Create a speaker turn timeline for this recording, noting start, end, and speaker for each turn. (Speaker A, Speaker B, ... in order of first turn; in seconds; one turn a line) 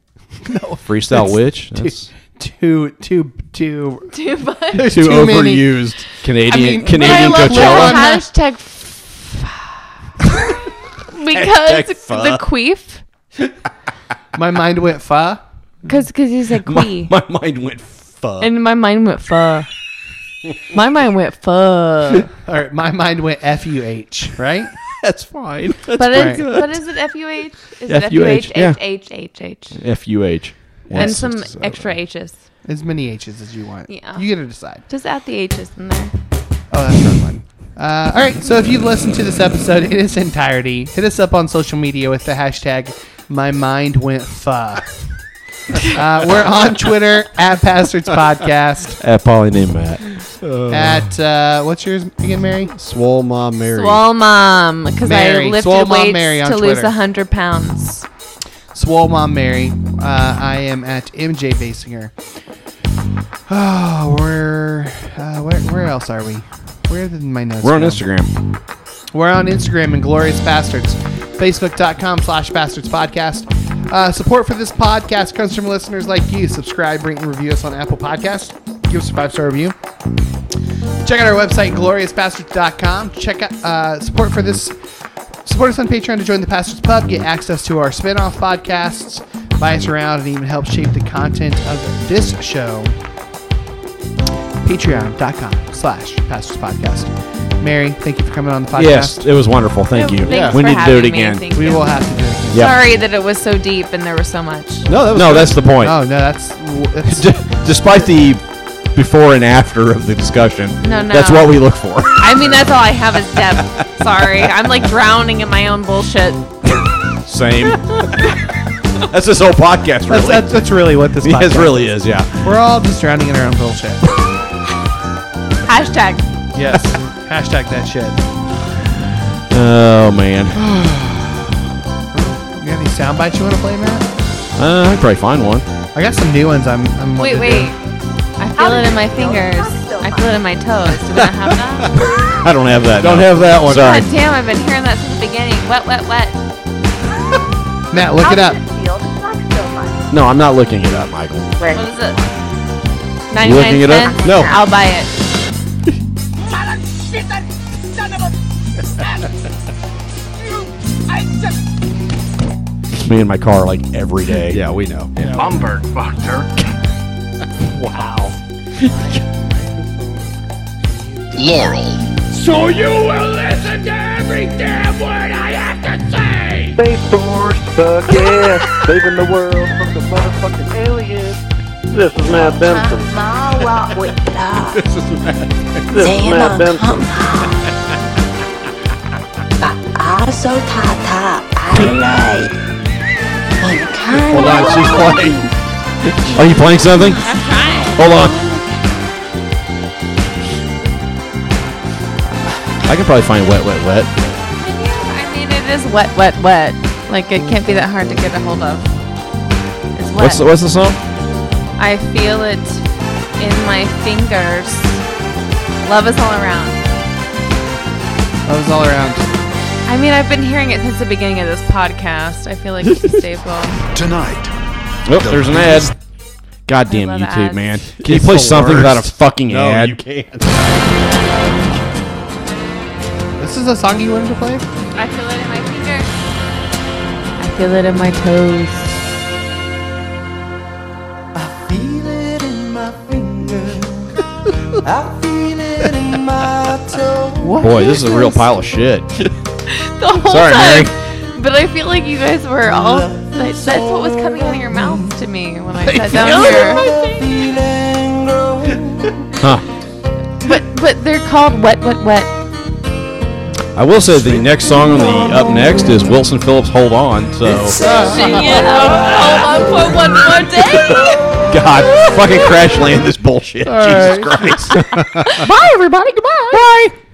Speaker A: 0.5-4.1
Speaker B: 0.8-2.1
Speaker C: 4.1-4.9
Speaker A: 4.7-5.7
Speaker D: 4.7-6.1
Speaker B: 5.0-8.1
Speaker A: 6.5-8.3
Speaker C: 6.6-9.8
Speaker C: 11.1-13.0
Speaker B: 11.3-12.4
Speaker A: 14.3-15.4
Speaker C: 15.8-17.1
Speaker B: 16.6-18.5
Speaker C: 18.4-19.7
Speaker C: 20.7-22.3
Speaker A: 22.4-24.7
Speaker B: 25.0-26.8
Speaker C: 26.0-29.8
Speaker A: 26.1-26.4
Speaker B: 27.9-28.8
Speaker B: 29.7-31.9
Speaker C: 30.9-32.4
Speaker A: 32.6-34.8
Speaker C: 33.9-34.2
Speaker C: 34.9-36.1
Speaker A: 36.7-45.1
Speaker A: 45.8-49.0
Speaker B: 49.0-50.2
Speaker D: 50.4-51.1
Speaker A: 50.7-52.7
Speaker D: 52.7-54.0
Speaker C: 53.7-58.0
Speaker A: 55.0-56.9
Speaker A: 58.7-62.1
Speaker A: 63.5-68.0
Speaker B: 67.6-68.3
Speaker A: 69.1-79.8
Speaker A: 81.0-84.8
Speaker A: 85.4-93.0
Speaker A: 94.6-99.3
Speaker B: 98.7-101.4
Speaker C: 99.9-104.9
Speaker D: 100.3-100.8
Speaker A: 100.3-100.6
Speaker A: 101.5-102.7
Speaker B: 102.5-102.8
Speaker D: 104.8-105.7
Speaker B: 105.1-106.0
Speaker A: 105.8-107.3
Speaker B: 107.0-112.9
Speaker C: 110.8-111.6
Speaker C: 112.2-116.5
Speaker B: 113.4-113.7
Speaker B: 116.7-118.4
Speaker B: 119.0-122.6
Speaker A: 120.1-124.0
Speaker C: 125.7-126.2
Speaker A: 126.5-128.2
Speaker B: 129.5-130.9
Speaker A: 132.1-134.1
Speaker B: 134.6-135.7
Speaker A: 135.9-137.7
Speaker C: 137.2-137.8
Speaker C: 138.4-142.0
Speaker E: 138.6-140.4
Speaker B: 142.3-144.1
Speaker D: 142.9-144.1
Speaker C: 143.7-146.3
Speaker A: 147.9-148.6
Speaker E: 148.2-149.9
Speaker B: 150.1-151.5
Speaker C: 151.7-152.2
Speaker C: 153.3-155.1
Speaker B: 153.4-154.5
Speaker D: 154.2-154.5
Speaker B: 162.9-165.7
Speaker D: 164.5-165.1
Speaker F: 176.7-181.4
Speaker F: 181.9-183.1
Speaker E: 182.3-184.8
Speaker D: 184.8-185.7
Speaker F: 185.9-187.1
Speaker E: 185.9-187.7
Speaker E: 189.6-192.6
Speaker E: 193.6-195.5
Speaker D: 194.3-195.5
Speaker E: 196.2-199.0
Speaker B: 196.3-197.2
Speaker C: 197.2-198.0
Speaker B: 198.0-198.4
Speaker B: 202.8-204.1
Speaker C: 204.7-208.9
Speaker C: 209.9-210.4
Speaker B: 210.2-211.0
Speaker C: 211.8-212.8
Speaker C: 213.4-215.0
Speaker C: 215.8-216.8
Speaker A: 218.4-219.2
Speaker C: 219.8-223.8
Speaker B: 225.0-226.0
Speaker D: 225.2-225.9
Speaker B: 226.7-230.0
Speaker C: 226.8-227.8
Speaker D: 228.0-230.9
Speaker A: 233.4-234.7
Speaker C: 234.9-236.1
Speaker C: 237.4-239.0
Speaker B: 247.6-249.1
Speaker C: 249.7-257.1
Speaker B: 250.1-250.9
Speaker D: 256.1-256.7
Speaker B: 259.4-259.6
Speaker C: 260.4-262.3
Speaker B: 263.7-267.9
Speaker A: 267.9-268.2
Speaker C: 267.9-271.4
Speaker B: 270.9-275.0
Speaker A: 273.6-274.4
Speaker D: 274.6-275.5
Speaker A: 275.4-276.6
Speaker B: 276.6-276.9